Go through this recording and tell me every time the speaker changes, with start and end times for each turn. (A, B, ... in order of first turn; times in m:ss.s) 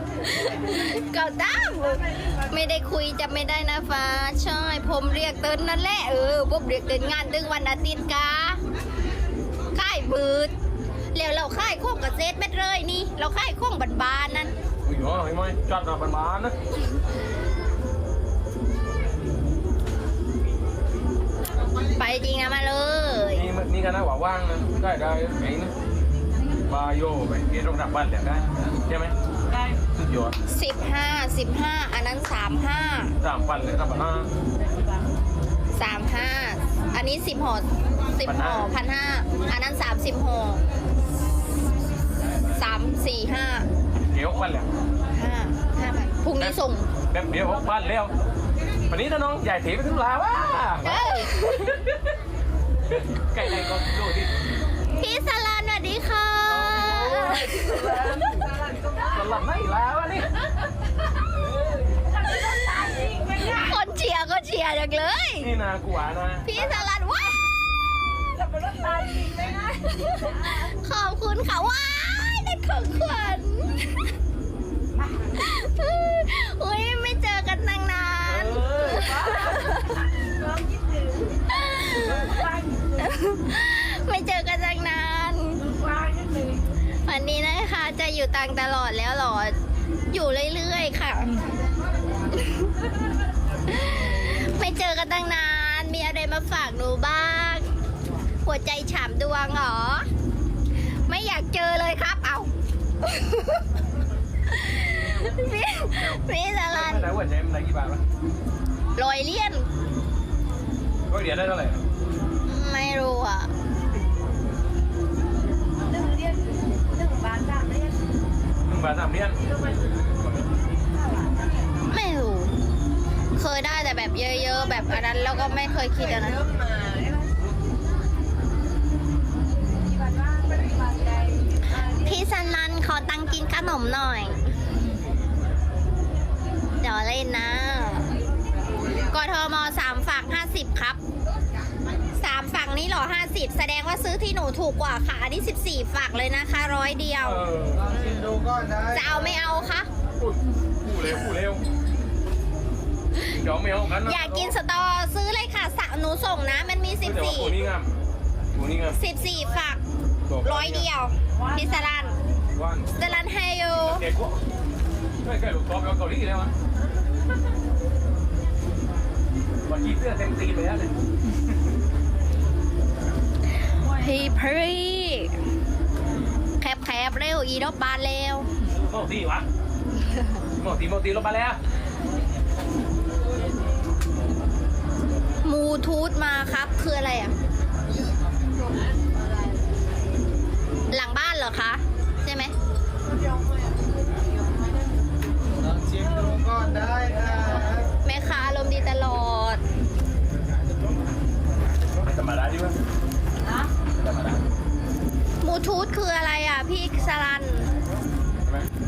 0:00.3-0:08.6 A
0:09.7-0:10.5 A
0:11.1-0:14.5 A
0:14.9-0:16.6 B
0:21.8-0:23.5 A
0:23.3-0:25.7 B
0:26.7-0:29.1 B
0:29.5-0:29.8 C
0:29.9-0:30.4 B
0:30.5-0:33.2 A
0:33.2-0:34.3 B
0:35.8-0:40.6 A
0:38.2-0:38.7 B
0:42.5-0:43.7 A
0:44.1-0:44.7 B
0:45.1-0:46.9 A
0:47.1-0:48.1 B
0:48.9-0:52.1 B
0:50.8-0:51.8 A
0:53.1-0:54.3 B
0:55.0-0:58.0 A
0:56.4-0:58.5 B
0:58.5-0:59.2 C
0:59.0-1:00.3 B
1:01.9-1:03.8 C
1:03.4-1:05.5 A
1:05.4-1:06.8 B
1:06.4-1:07.4 A
1:08.3-1:10.4 C
1:09.8-1:14.1 A
1:15.3-1:20.0 A
1:18.2-1:19.0 B
1:18.8-1:23.1 C
1:21.5-1:22.5 A
1:23.0-1:25.6 A
1:25.6-1:26.7 C
1:27.0-1:29.6 A
1:30.1-1:31.4 A
1:32.4-1:32.7 A
1:33.7-1:37.7 A
1:38.4-1:40.1 A
1:41.1-1:42.5 A
1:43.0-1:43.7 A
1:44.5-1:47.1 A
1:46.7-1:48.0 B
1:49.0-1:49.7 A
1:51.1-1:51.8 B
1:52.5-1:53.5 A
1:55.9-1:58.0 C
1:58.7-1:59.4 B
2:01.9-2:02.5 A
2:03.4-2:06.4 A
2:06.5-2:07.3 C
2:10.0-2:11.4 C
2:11.8-2:14.4 A
2:16.8-2:18.1 A
2:18.9-2:21.0 A
2:22.2-2:27.4 A
2:27.2-2:27.9 B
2:27.8-2:28.9 D
2:28.9-2:29.9 A
2:30.2-2:31.6 B
2:33.2-2:34.6 B
2:34.0-2:37.6 A
2:37.0-2:37.9 B
2:38.6-2:39.0 B
2:38.9-2:39.8 A
2:40.3-2:40.9 B
2:40.4-2:42.2 A
2:41.4-2:41.9 C
2:42.5-2:43.2 B
2:43.0-2:44.0 A
2:43.8-2:44.4 B
2:45.2-2:46.5 B
2:49.7-2:50.9 B
2:53.8-2:55.4 A
2:56.6-2:58.5 A
2:58.7-2:59.5 B
3:00.6-3:01.6 B
3:05.4-3:07.3 A
3:10.9-3:12.5 A
3:15.7-3:17.9 D
3:16.1-3:16.5 C
3:18.0-3:19.6 A
3:22.0-3:22.8 B
3:23.9-3:24.5 B
3:25.4-3:27.7 A